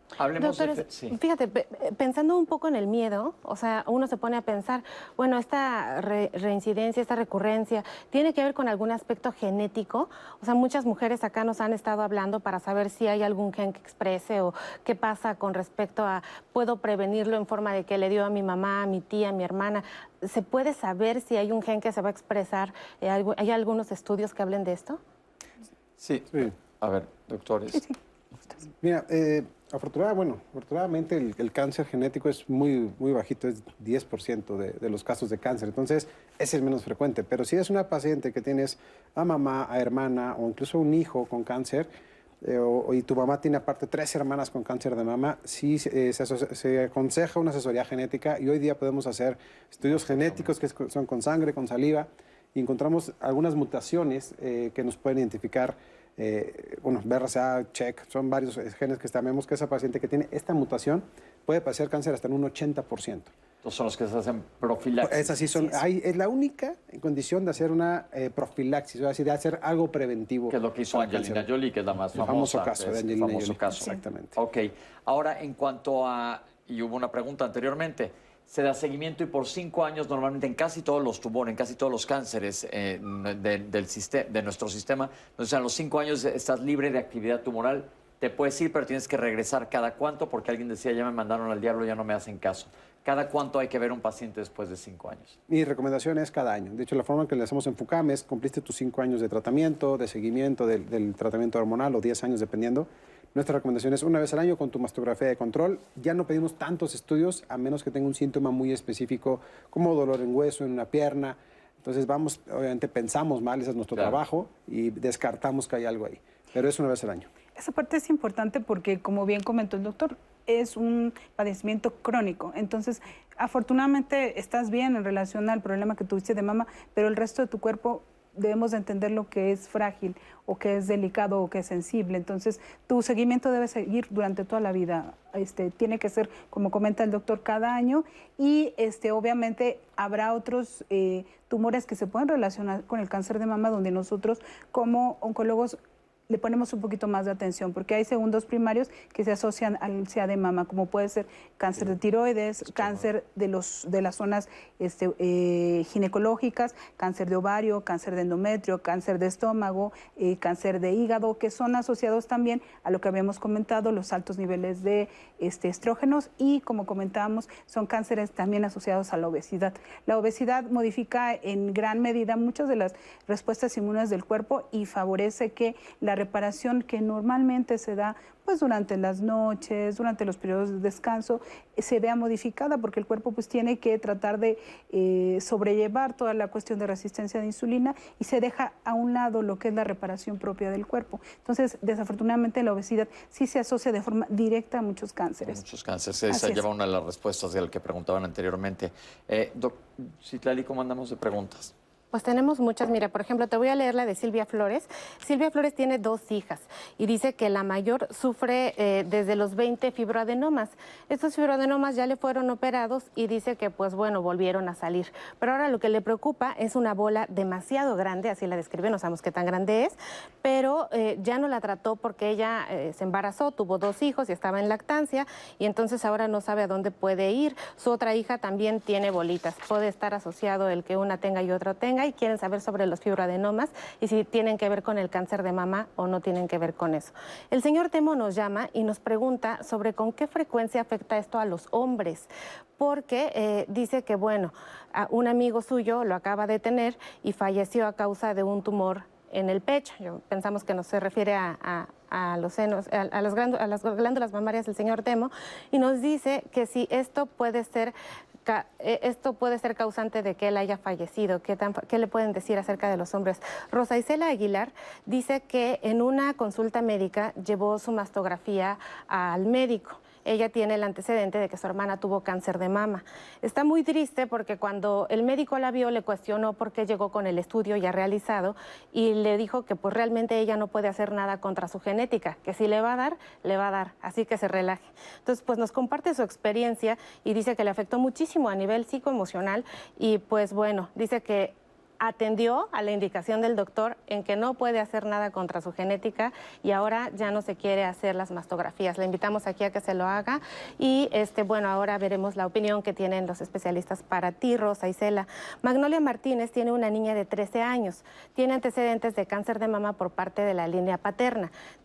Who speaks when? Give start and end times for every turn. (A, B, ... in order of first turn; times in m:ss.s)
0:00.2-0:01.2 A
0:00.4-0:25.0 B
0:26.0-0:27.8 A
0:27.7-0:28.0 C
0:28.8-0:41.9 D
0:42.4-1:03.3 D
0:50.0-0:50.5 A
1:03.6-1:05.8 A
1:05.0-1:11.5 D
1:10.5-1:35.4 A
1:12.1-1:14.4 D
1:35.5-1:57.3 D
1:57.6-2:25.8 C
2:26.3-3:15.6 C
3:15.4-3:21.7 A
3:16.3-3:16.6 C
3:22.1-4:17.9 B
4:18.4-5:11.5 B